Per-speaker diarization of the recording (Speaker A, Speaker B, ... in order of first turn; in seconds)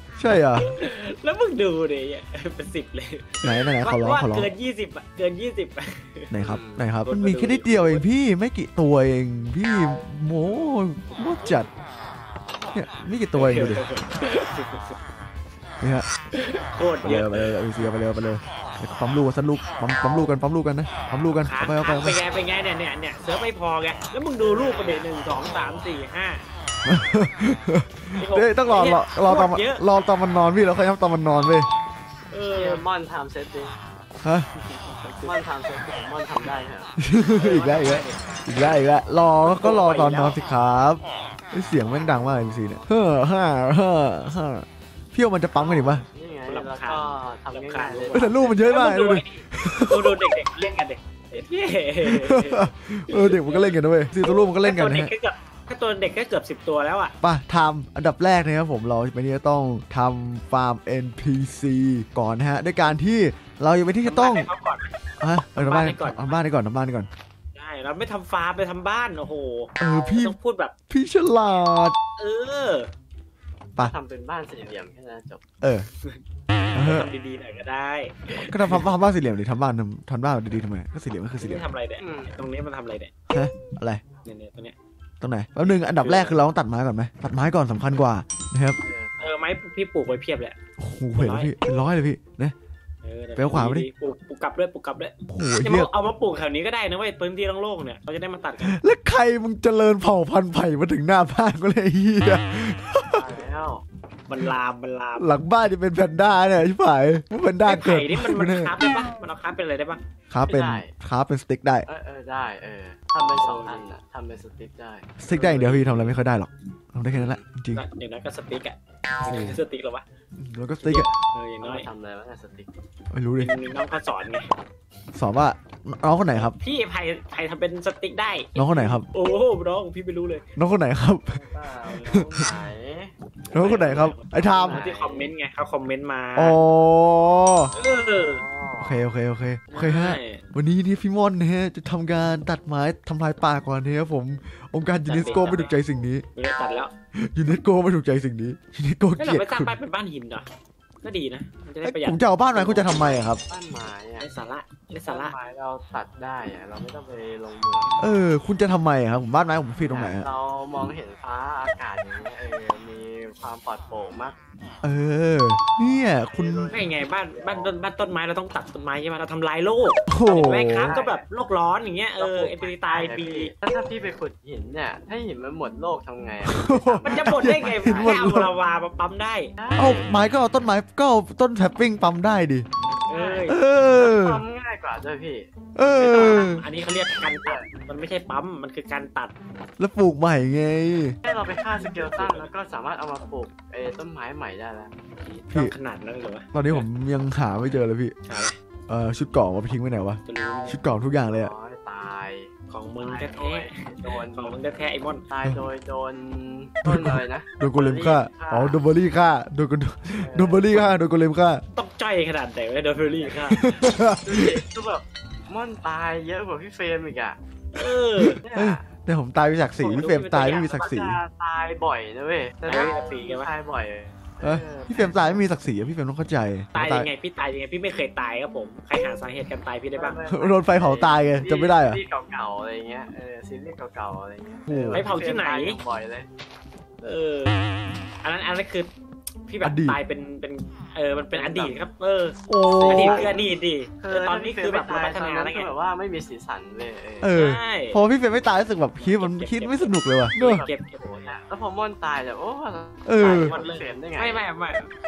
Speaker A: 0.2-0.7, 3.4-4.5, 6.3-11.7, 12.7-13.8, 15.8-16.1, 17.0-22.2, 26.9-31.7, 37.0-46.0, 48.1-50.2, 52.0-55.1, 57.2-64.5, 65.2-67.1, 69.8-70.4, 70.9-72.0, 75.6-75.9, 76.7-77.1, 78.3-81.7, 83.3-84.0, 85.2-88.8, 90.8-92.5, 93.4-93.9, 95.3-95.9, 98.6-103.2, 105.2-108.8, 110.3-111.9, 115.2-117.8, 119.2-119.6, 120.4-121.1, 123.1-123.5, 125.1-126.6, 128.6-129.1, 130.6-131.4, 131.9-132.5, 133.5-134.8, 136.4-137.7, 138.8-146.2, 147.2-149.7, 151.8-153.4, 158.0-160.3, 164.8-166.8, 170.1-171.0, 176.4-178.5, 179.8-182.7, 183.5-184.4, 185.8-186.7, 189.8-191.2, 196.5-198.2, 198.9-201.5, 206.8-211.6, 213.5-214.6, 218.2-221.2, 224.4-227.1, 230.3-232.0, 234.7-235.1, 239.6-240.0, 242.5-243.3, 247.2-250.6, 253.1-253.5
Speaker B: 0.6-6.3, 7.0-8.1, 11.4-11.7, 13.3-14.9, 16.3-17.6, 21.4-26.4, 28.1-29.8, 32.3-32.8, 34.6-35.4, 39.5-40.4, 46.5-57.1, 64.0-65.0, 65.5-66.4, 67.5-70.7, 72.2-72.9, 76.7-78.9, 81.4-83.1, 84.2-84.8, 85.7-86.4, 89.2-90.6, 91.2-91.5, 93.0-98.8, 103.1-103.5, 104.3-105.3, 107.6-110.0, 113.2-113.9, 115.3-116.2, 117.7-120.0, 120.8-121.9, 123.4-124.5, 126.4-130.4, 133.5-136.6, 137.7-138.4, 139.7-140.4, 145.1-145.8, 146.3-146.9, 149.2-150.5, 151.0-153.0, 154.2-155.4, 166.7-173.5, 177.0-179.5, 183.1-183.6, 186.0-189.3, 192.1-192.5, 195.2-196.9, 198.3-198.6, 200.3-200.8, 202.7-205.2, 211.8-213.9, 217.7-218.4, 219.8-220.9, 222.7-223.5, 226.7-230.2, 234.9-235.8, 237.0-237.6, 238.2-238.9, 239.5-245.7, 247.3-248.0, 249.0-251.3, 253.2-254.9
Speaker C: 6.4-6.9, 24.4-25.1, 32.5-33.8, 35.2-38.2, 45.6-48.5, 73.8-75.4, 82.0-82.3, 88.8-89.3, 103.1-103.8, 110.5-110.9, 111.9-115.2, 117.1-117.4, 121.6-122.7, 131.3-133.1, 134.5-135.3, 137.7-139.1, 145.2-145.7, 152.9-154.3, 155.1-158.0, 159.9-164.4, 166.2-167.8, 170.9-171.2, 172.2-178.2, 179.6-180.2, 183.1-185.5, 186.1-186.4, 187.4-187.7, 191.2-194.9, 201.1-204.6, 205.3-208.8, 210.2-210.9, 213.2-213.6, 214.2-217.4, 218.4-218.8, 220.4-225.4, 230.0-236.3, 241.3-241.8, 242.6-243.5, 244.0-247.3, 250.4-254.5